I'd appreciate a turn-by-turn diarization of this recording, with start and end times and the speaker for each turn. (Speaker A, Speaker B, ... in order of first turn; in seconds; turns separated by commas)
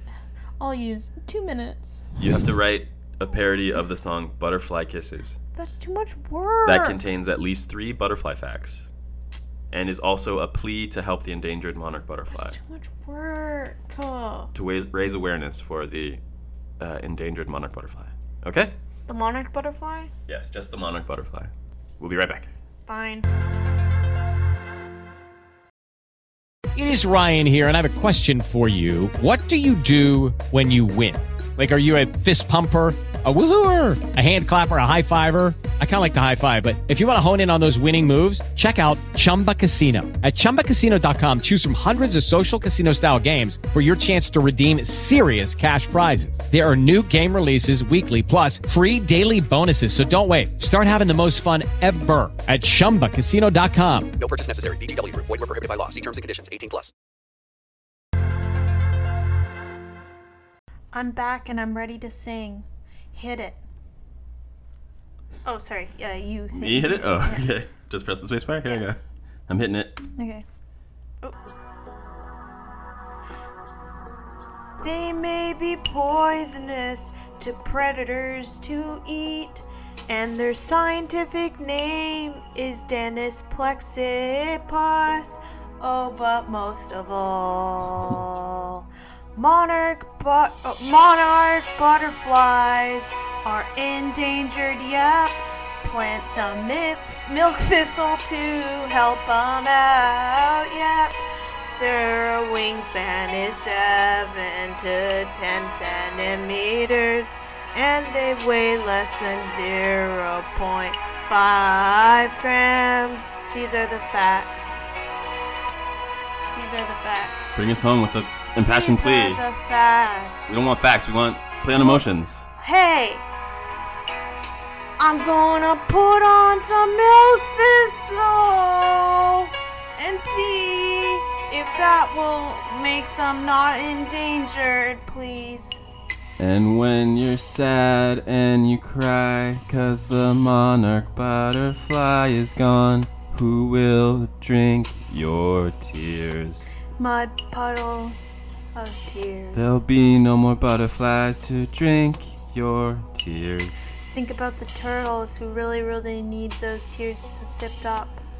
Speaker A: 0.6-2.2, Speaker B: 2.2-5.4, Speaker A: 5.5-7.0, Speaker B: 6.6-8.9, Speaker B: 9.7-12.6, Speaker A: 12.3-14.5, Speaker B: 14.5-16.2, Speaker B: 16.8-18.7, Speaker A: 19.1-20.1, Speaker B: 20.3-22.5, Speaker A: 22.9-23.3, Speaker C: 26.7-54.1, Speaker D: 54.2-56.9, Speaker A: 60.9-63.6, Speaker A: 65.4-67.5, Speaker B: 66.5-70.0, Speaker A: 70.2-70.4, Speaker A: 74.8-101.2, Speaker A: 101.8-114.8, Speaker A: 116.5-117.6, Speaker B: 117.5-119.4, Speaker A: 118.6-120.6, Speaker B: 120.5-122.4, Speaker A: 121.7-122.0, Speaker A: 122.6-123.2, Speaker A: 125.0-135.8, Speaker B: 136.4-146.7, Speaker A: 147.0-149.8, Speaker B: 149.5-153.9, Speaker A: 154.1-158.2